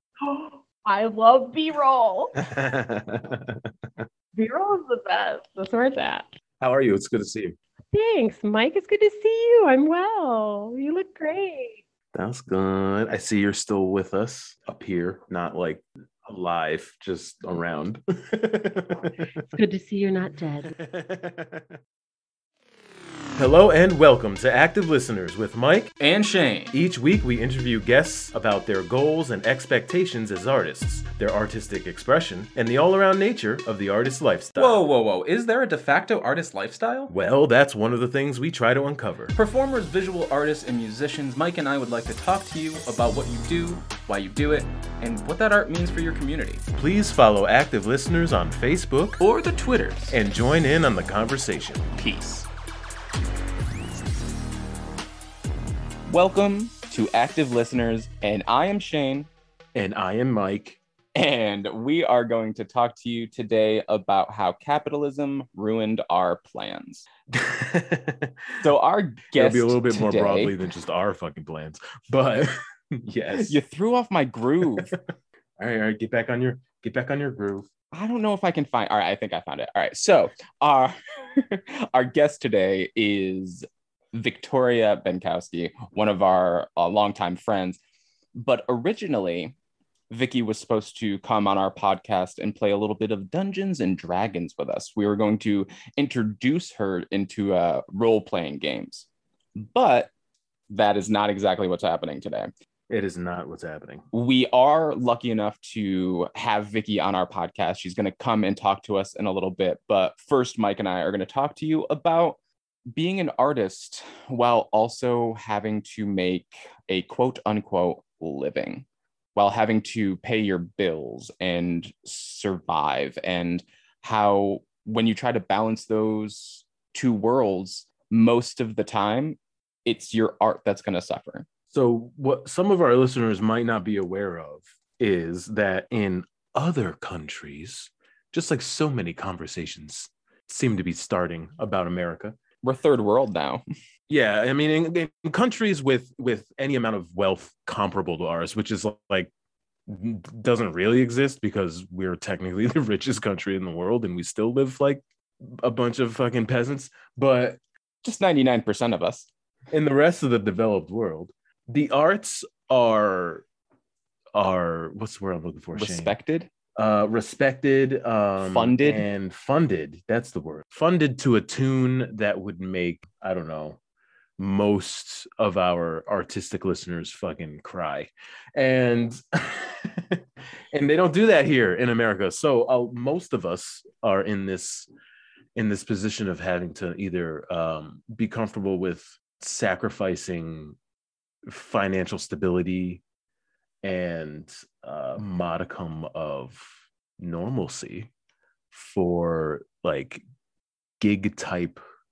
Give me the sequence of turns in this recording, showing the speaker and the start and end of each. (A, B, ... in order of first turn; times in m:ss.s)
0:00.2-0:02.4 A
0:02.4-0:03.7 B
0:04.3-0:06.3 A
0:06.6-0:07.6 B
0:07.9-0:11.8 A
0:12.1-0:19.2 B
0:19.4-0:20.7 A
0:20.6-0:21.8 B
0:23.4-0:25.9 B
0:26.0-0:26.7 C
0:26.7-0:34.8 B
0:34.6-0:37.1 C
0:37.1-0:39.3 B
0:39.4-0:46.6 C
0:46.7-0:49.2 B
0:49.2-0:50.2 C
0:50.1-0:51.9 B
0:51.9-0:52.5 C
0:56.1-0:59.3 C
0:59.7-1:00.8 B
1:01.1-1:07.0 C
1:07.3-1:08.6 B
1:08.6-1:10.5 C
1:09.3-1:13.6 B
1:13.4-1:14.9 C
1:14.7-1:15.0 B
1:15.6-1:17.7 B
1:17.9-1:27.8 C
1:28.4-1:29.6 C
1:30.1-1:40.1 C
1:40.7-1:42.5 C
1:42.9-1:44.0 B
1:44.1-1:52.4 C
1:52.9-2:11.5 C
2:11.7-2:22.4 B
2:22.6-2:23.6 C
2:24.1-2:29.3 B
2:29.8-2:37.6 B
2:38.0-2:39.3 C
2:39.7-2:43.4 B
2:44.3-2:46.1 B
2:45.7-2:46.5 C
2:46.7-2:53.8 B
2:48.4-2:49.0 C
2:54.4-3:04.9 B
3:05.5-3:10.8 B
3:11.4-3:13.0 B
3:13.8-3:18.1 B
3:18.7-3:20.2 B
3:21.0-3:21.8 B